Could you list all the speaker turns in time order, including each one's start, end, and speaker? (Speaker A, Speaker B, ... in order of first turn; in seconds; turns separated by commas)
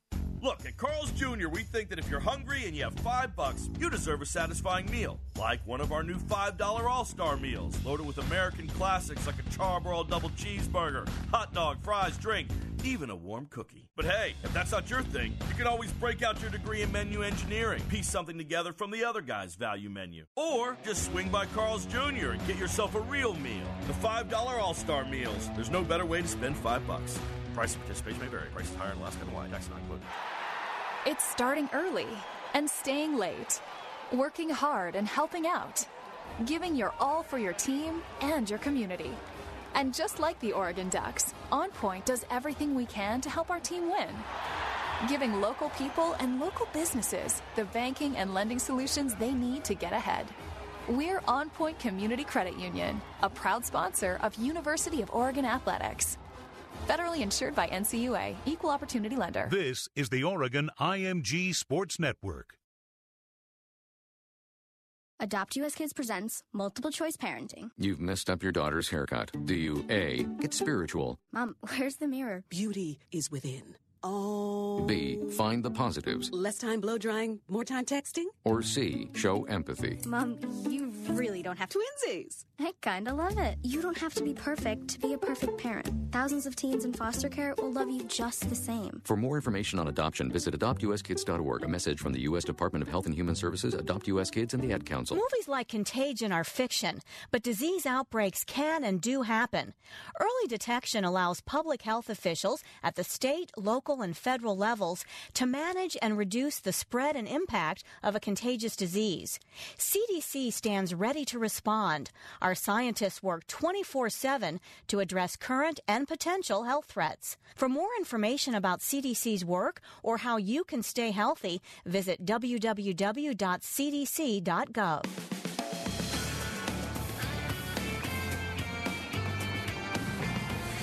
Speaker A: 0.4-30.1, Speaker B: 31.1-35.9, Speaker B: 36.4-39.2, Speaker B: 39.7-44.3, Speaker B: 45.0-50.4, Speaker B: 50.9-56.2, Speaker B: 56.9-59.6, Speaker C: 59.5-62.6, Speaker D: 65.2-67.7, Speaker E: 67.8-71.2, Speaker D: 71.3-72.4, Speaker F: 72.6-74.2, Speaker E: 74.9-76.2, Speaker F: 76.4-78.2, Speaker E: 78.5-80.0, Speaker D: 80.0-81.3, Speaker B: 81.7-82.5, Speaker D: 82.6-89.0, Speaker E: 89.1-95.2, Speaker G: 95.1-125.2